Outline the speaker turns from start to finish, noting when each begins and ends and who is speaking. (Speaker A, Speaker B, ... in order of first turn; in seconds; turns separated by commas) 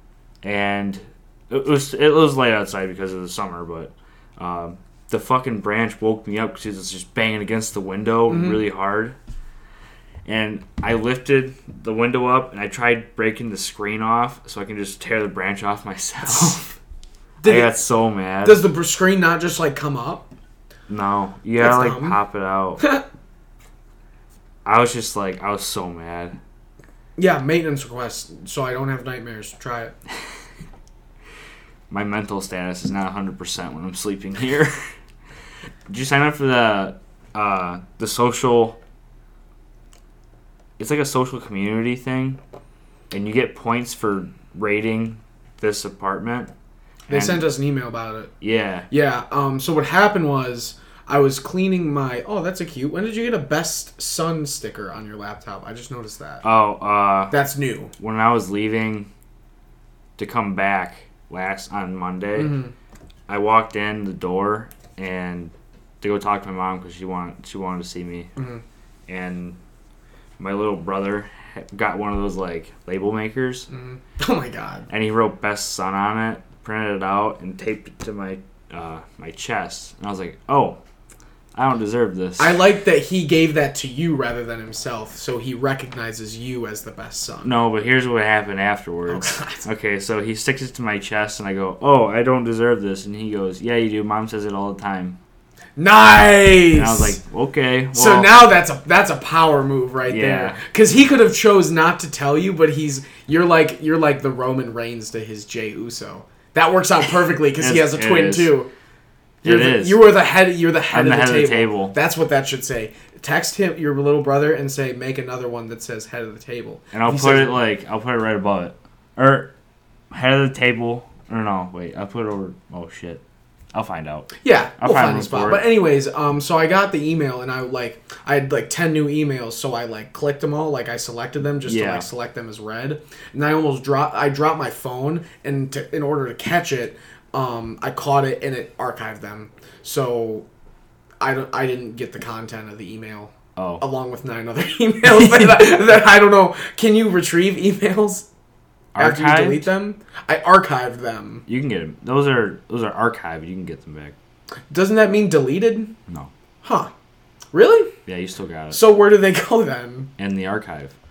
Speaker A: 0.4-9.2, Speaker B: 8.3-8.6, Speaker A: 10.2-16.8, Speaker B: 17.4-17.7, Speaker A: 17.4-18.6, Speaker B: 18.4-20.3, Speaker A: 20.9-22.9, Speaker B: 21.6-22.2, Speaker A: 24.6-26.4, Speaker B: 27.2-29.9, Speaker A: 31.9-34.8, Speaker A: 35.9-38.8, Speaker A: 40.8-42.4, Speaker A: 43.1-46.5, Speaker A: 47.1-47.4, Speaker B: 47.1-48.3, Speaker A: 48.4-48.9, Speaker B: 48.9-56.4, Speaker A: 56.4-57.4, Speaker B: 57.3-57.9, Speaker A: 58.0-59.1, Speaker A: 60.2-62.6, Speaker B: 62.4-62.7, Speaker A: 63.3-68.3, Speaker B: 68.4-68.6, Speaker A: 69.1-69.6, Speaker A: 70.4-73.7, Speaker B: 73.7-74.9, Speaker A: 74.9-80.8, Speaker A: 81.5-82.6, Speaker B: 82.4-87.5, Speaker A: 87.4-95.2, Speaker B: 89.1-89.7, Speaker B: 95.8-97.2, Speaker A: 96.7-98.3, Speaker B: 97.9-108.7, Speaker A: 100.1-100.6, Speaker A: 107.6-108.5, Speaker A: 109.4-110.1, Speaker B: 109.4-117.6, Speaker A: 110.9-112.0, Speaker A: 116.9-119.5, Speaker A: 120.1-123.2, Speaker A: 123.7-125.6, Speaker B: 124.4-140.5, Speaker A: 131.7-132.1, Speaker B: 141.2-148.3, Speaker A: 143.6-143.8, Speaker A: 148.9-149.7, Speaker B: 149.0-151.4, Speaker A: 151.5-154.2, Speaker B: 154.7-155.9, Speaker B: 156.6-156.9, Speaker B: 157.5-157.9, Speaker A: 158.1-158.8, Speaker B: 158.7-160.1, Speaker A: 160.2-160.9